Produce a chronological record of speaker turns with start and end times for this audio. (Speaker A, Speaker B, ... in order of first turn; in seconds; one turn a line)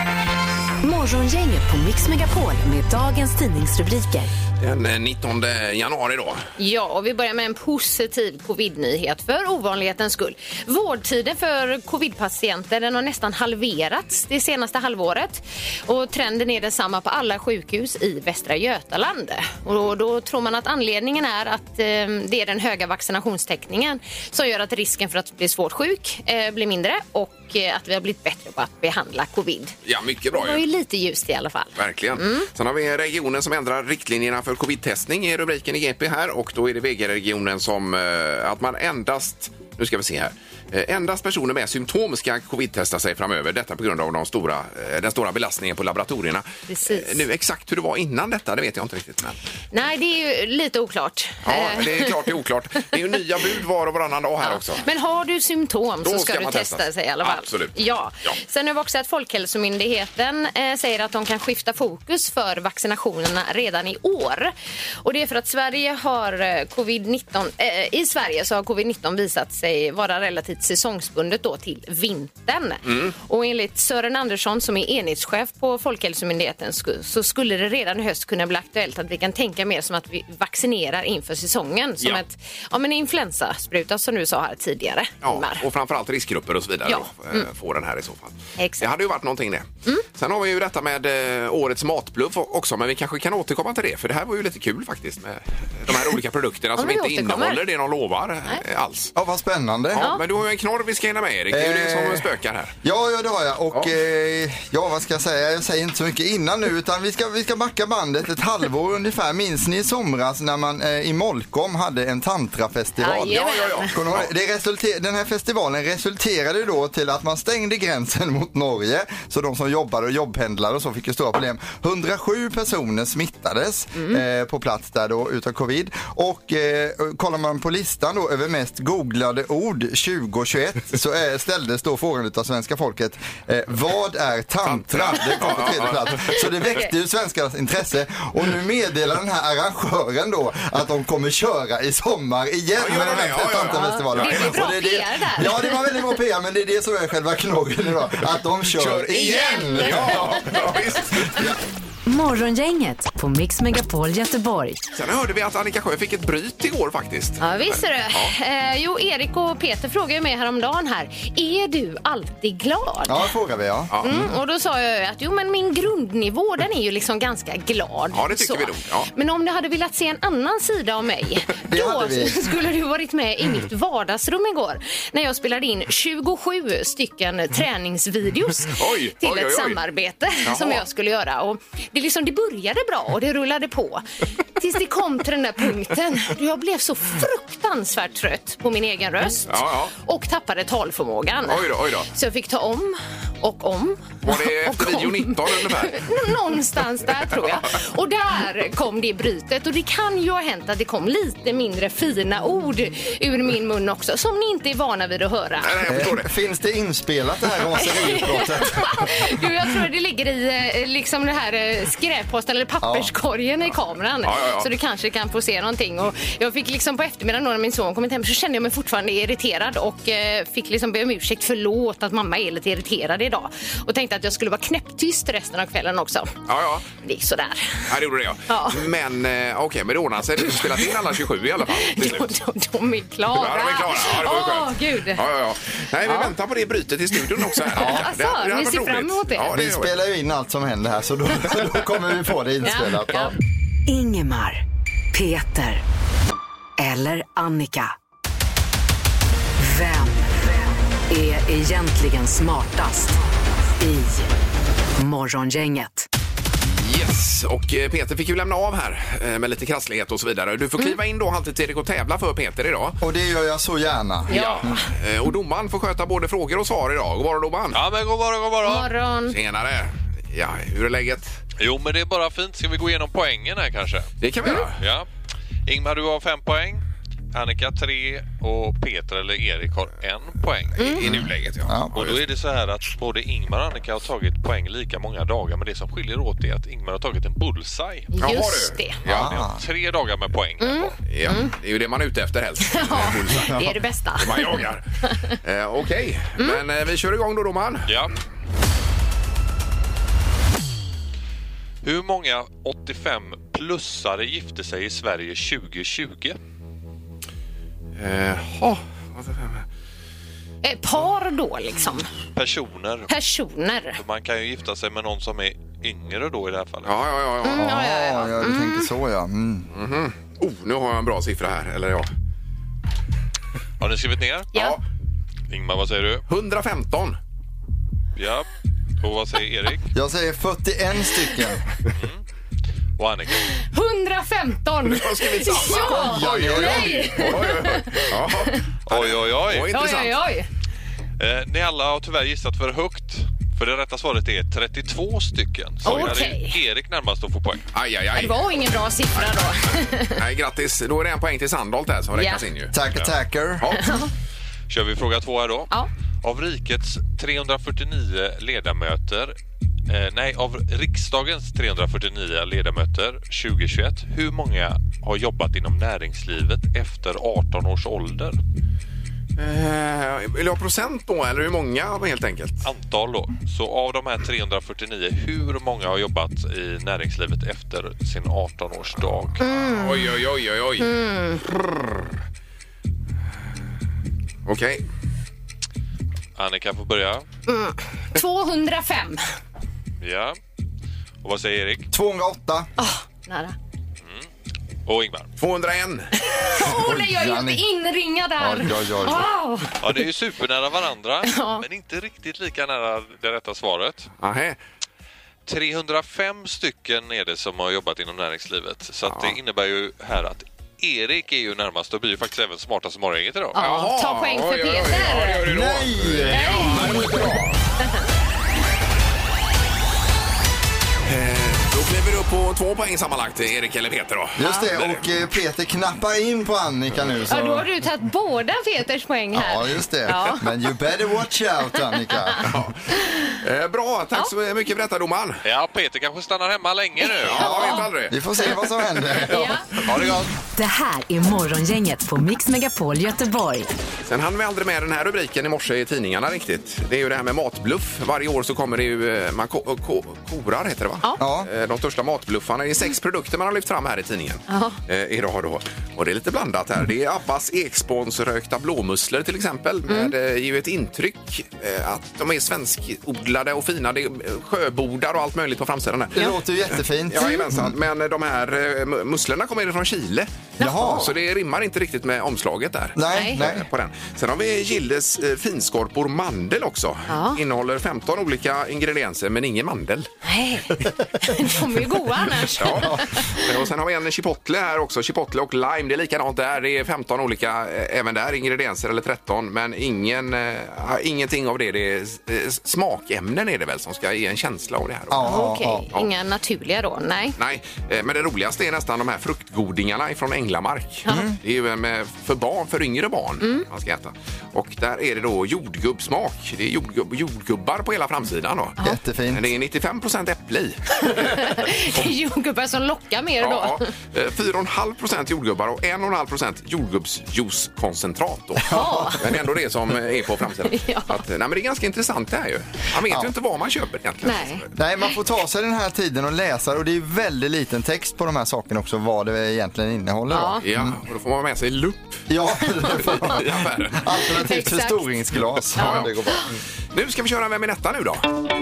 Speaker A: 0.8-4.3
Speaker B: 4.6-6.4
Speaker C: 6.6-29.7
Speaker B: 29.8-30.6
Speaker C: 30.3-32.5
Speaker B: 31.7-49.4
Speaker C: 46.7-47.2
Speaker C: 49.7-52.1
Speaker B: 51.4-54.8
Speaker C: 54.4-85.6
Speaker B: 56.0-58.4
Speaker B: 72.9-73.1
Speaker B: 85.2-99.1
Speaker C: 86.8-87.5
Speaker C: 88.6-88.9
Speaker C: 96.8-97.6
Speaker D: 99.1-100.1
Speaker B: 99.9-102.7
Speaker C: 99.9-100.2
Speaker D: 101.5-102.3
Speaker D: 102.8-150.5
Speaker C: 113.0-113.9
Speaker B: 113.3-114.3
Speaker C: 123.9-124.2
Speaker B: 134.6-136.4
Speaker B: 142.8-144.6
Speaker C: 143.7-145.9
Speaker B: 148.7-151.6
Speaker C: 149.2-150.6
Speaker A: 152.1-154.8
Speaker B: 154.9-158.3
Speaker C: 157.4-163.3
Speaker D: 163.1-164.3
Speaker B: 163.9-164.2
Speaker C: 164.0-184.0
Speaker B: 168.1-169.1
Speaker D: 171.6-172.4
Speaker B: 178.7-179.8
Speaker B: 180.4-180.8
Speaker C: 184.6-205.7
Speaker B: 189.5-189.9
Speaker B: 191.5-192.1
Speaker B: 194.2-196.1
Speaker B: 205.6-206.3
Speaker D: 205.9-209.2
Speaker C: 207.8-226.4
Speaker D: 212.8-213.1
Speaker B: 214.2-214.7
Speaker B: 226.5-226.8
Speaker C: 227.0-227.9
Speaker B: 227.9-232.3
Speaker C: 228.5-228.8
Speaker C: 231.7-235.2
Speaker B: 233.3-240.0
Speaker C: 236.0-236.3
Speaker C: 237.2-239.5
Speaker D: 237.8-238.1
Speaker D: 239.5-243.3
Speaker C: 242.6-243.3
Speaker A: 243.9-245.8
Speaker A: 246.8-247.9
Speaker A: 249.6-253.2
Speaker A: 253.7-254.3
Speaker A: 255.0-256.1
Speaker B: 256.6-263.0
Speaker D: 263.0-264.8
Speaker B: 264.3-267.8
Speaker C: 264.3-264.9
Speaker E: 267.7-268.9
Speaker C: 268.6-269.3
Speaker B: 269.3-271.4
Speaker E: 271.6-274.1
Speaker B: 274.2-274.8
Speaker E: 274.7-275.1
Speaker E: 275.6-280.9
Speaker B: 280.8-282.2
Speaker D: 281.6-282.0
Speaker E: 281.9-288.1
Speaker C: 288.1-289.0
Speaker B: 288.2-289.4
Speaker D: 289.1-289.6
Speaker E: 289.1-290.9
Speaker C: 290.6-291.5
Speaker B: 291.1-293.5
Speaker C: 292.7-295.3
Speaker B: 294.2-297.9
Speaker E: 297.9-298.1
Speaker E: 301.8-306.4
Speaker B: 308.0-309.6
Speaker C: 310.6-312.1
Speaker E: 312.3-313.1
Speaker C: 313.1-314.0
Speaker E: 313.9-317.0
Speaker B: 316.8-317.7
Speaker C: 317.4-318.9
Speaker D: 317.5-319.7
Speaker B: 319.7-322.1
Speaker E: 323.8-324.5
Speaker E: 325.5-326.2
Speaker B: 326.3-327.2
Speaker E: 328.1-328.5
Speaker E: 329.0-329.9
Speaker D: 329.9-331.6
Speaker E: 331.9-332.2
Speaker E: 333.0-333.5
Speaker C: 333.6-338.6
Speaker B: 334.9-340.1
Speaker D: 335.8-337.3
Speaker E: 338.9-339.9
Speaker C: 339.7-340.5
Speaker E: 341.2-347.7
Speaker B: 345.8-346.1
Speaker C: 345.8-346.6
Speaker B: 347.7-348.5
Speaker C: 348.1-350.2
Speaker B: 350.1-352.7
Speaker C: 352.1-352.4
Speaker D: 352.7-353.7
Speaker B: 353.6-353.9
Speaker C: 353.8-354.1
Speaker E: 354.7-359.4
Speaker E: 359.9-368.4
Speaker B: 369.4-372.6
Speaker E: 372.6-379.4
Speaker C: 379.4-380.2
Speaker B: 379.5-382.0
Speaker C: 380.8-381.4
Speaker B: 384.4-384.8
Speaker E: 386.4-387.2
Speaker C: 387.5-389.2
Speaker E: 390.0-390.4
Speaker E: 391.2-391.9
Speaker D: 391.9-392.7
Speaker C: 392.8-393.6
Speaker E: 394.9-395.3
Speaker B: 395.4-396.1
Speaker C: 396.2-399.8
Speaker D: 396.6-397.6
Speaker D: 398.4-399.3
Speaker E: 399.8-404.1
Speaker C: 401.2-401.6
Speaker B: 404.2-404.6
Speaker E: 405.4-413.6
Speaker B: 409.1-409.4
Speaker C: 413.5-415.4
Speaker B: 413.6-417.6
Speaker D: 415.4-417.2
Speaker C: 416.3-418.0
Speaker B: 421.1-425.1
Speaker D: 424.4-427.7
Speaker C: 427.3-430.7
Speaker D: 429.3-432.5
Speaker C: 431.8-432.4
Speaker B: 432.4-435.4
Speaker C: 433.0-433.3
Speaker E: 435.4-437.7
Speaker C: 437.0-437.9
Speaker B: 437.3-438.1
Speaker D: 437.4-439.6
Speaker B: 439.2-439.5
Speaker C: 439.3-439.6
Speaker E: 439.8-440.3
Speaker A: 440.5-443.7
Speaker B: 444.1-466.3
Speaker D: 451.2-451.5
Speaker C: 454.5-454.8
Speaker D: 466.1-467.7
Speaker B: 467.1-480.1
Speaker C: 470.6-471.1
Speaker D: 470.6-471.1
Speaker D: 472.9-473.6
Speaker C: 473.1-473.4
Speaker C: 477.1-477.4
Speaker C: 480.2-483.3
Speaker B: 482.6-495.3
Speaker D: 482.7-483.1
Speaker D: 495.1-495.9
Speaker C: 495.2-497.4
Speaker B: 497.4-508.8
Speaker D: 501.1-501.4
Speaker D: 508.8-509.5
Speaker B: 509.3-512.1
Speaker C: 511.0-513.9
Speaker B: 513.4-518.7
Speaker D: 518.6-519.4
Speaker C: 518.7-519.2
Speaker B: 519.2-524.7
Speaker C: 520.7-521.2
Speaker D: 523.1-523.3
Speaker C: 524.2-525.1
Speaker D: 524.7-531.0
Speaker C: 530.3-530.6
Speaker B: 530.6-532.2
Speaker D: 532.3-536.6
Speaker B: 533.0-534.0
Speaker C: 534.2-535.0
Speaker B: 535.7-536.1
Speaker C: 535.8-536.5
Speaker B: 536.9-538.2